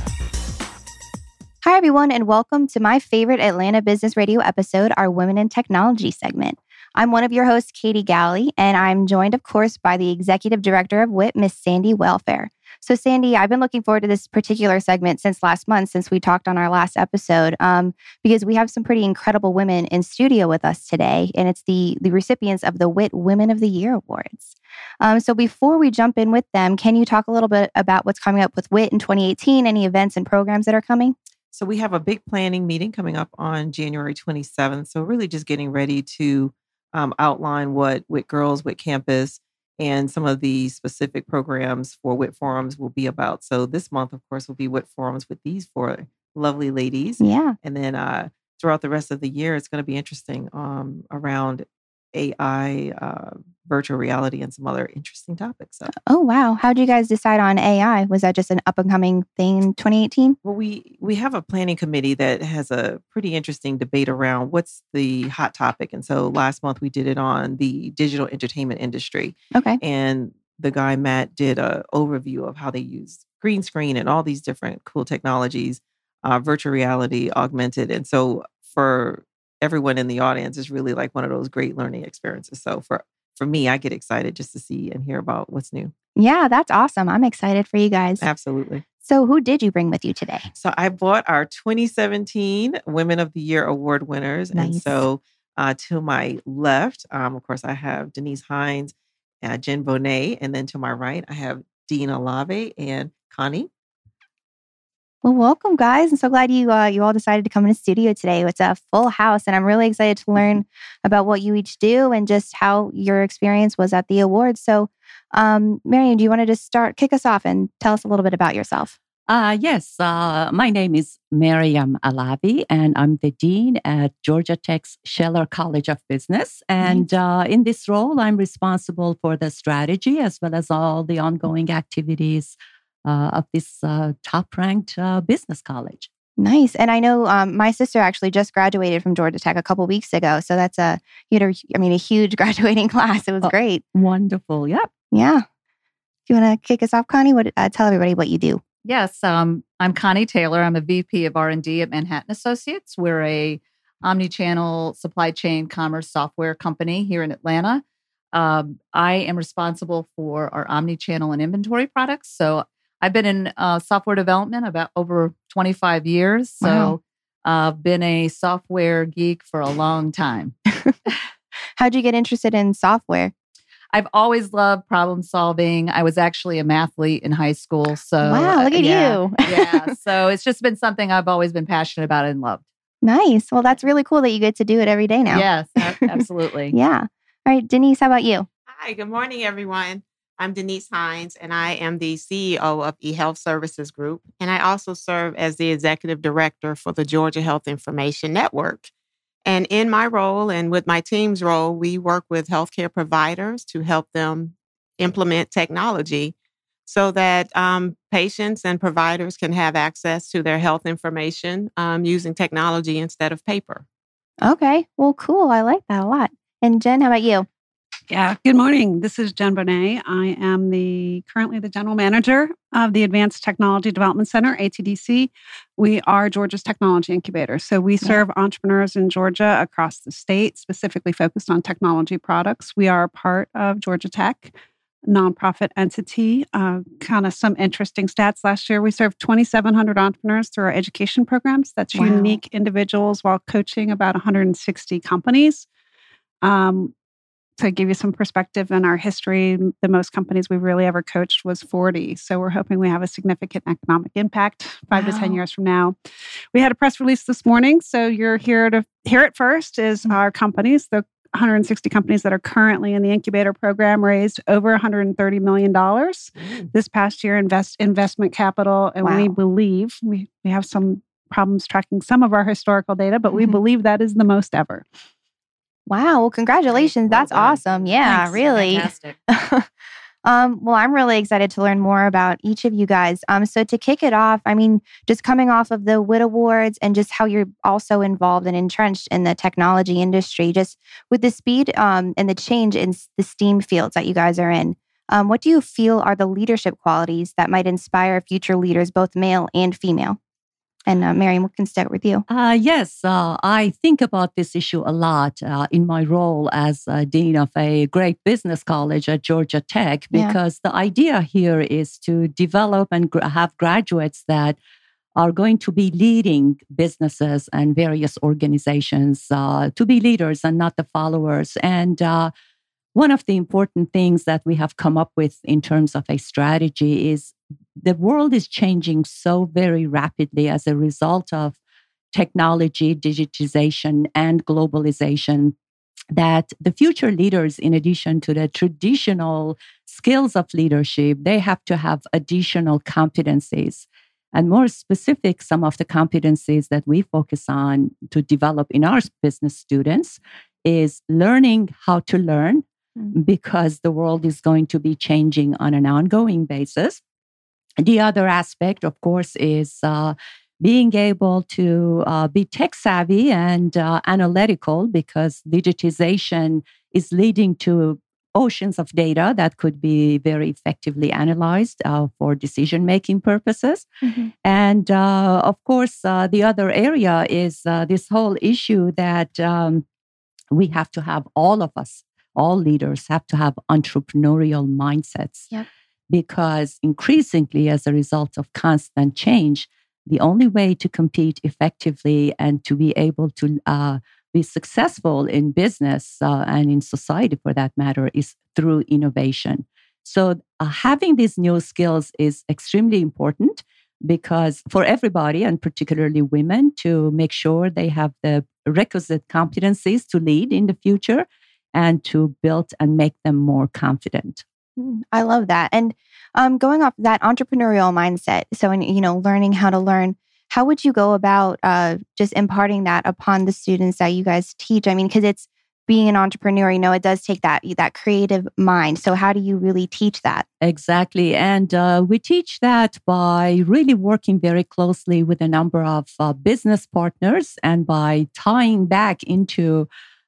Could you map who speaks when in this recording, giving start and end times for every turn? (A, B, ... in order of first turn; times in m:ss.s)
0:01.6-0:31.1 A
0:31.5-0:55.9 B
0:47.2-0:47.6 A
0:56.1-1:00.4 A
1:00.4-1:25.9 B
1:09.5-1:09.8 A
1:26.2-1:28.2 A
1:28.2-1:28.8 B
1:29.0-1:30.5 A
1:30.5-1:43.7 B
1:34.5-1:35.0 A
1:45.2-1:58.9 A
1:59.3-2:16.1 C
2:16.4-2:23.8 A
2:23.4-2:24.9 C
2:25.1-2:25.4 A
2:26.3-2:28.6 A
2:28.8-2:50.6 D
2:46.6-2:47.0 A
2:51.8-2:53.3 A
2:53.9-3:02.6 D
2:58.2-2:59.9 A
3:03.0-3:06.2 A
3:05.3-3:06.7 D
3:06.7-3:08.5 A
3:08.7-3:18.9 E
3:19.4-3:26.3 E
3:26.8-3:33.8 E
3:34.4-3:37.5 A
3:38.1-3:54.5 F
3:55.1-4:05.7 F
4:01.9-4:02.4 A
4:06.4-4:06.9 F
4:07.6-4:15.9 F
4:14.9-4:15.4 A
4:16.5-4:34.8 F
4:29.0-4:29.3 A
4:33.3-4:33.6 A
4:35.9-4:39.7 A
4:36.7-4:39.2 D
4:40.2-5:00.2 A
5:00.9-5:02.2 A
5:02.3-5:14.6 C
5:15.2-5:22.3 C
5:22.9-5:31.6 C
5:32.1-5:35.5 C
5:36.1-5:57.0 C
5:57.8-6:13.8 C
6:14.0-6:14.3 A
6:14.4-6:19.8 C
6:20.5-6:25.5 C
6:26.1-6:54.4 C
6:54.8-7:10.4 A
7:10.6-7:19.9 C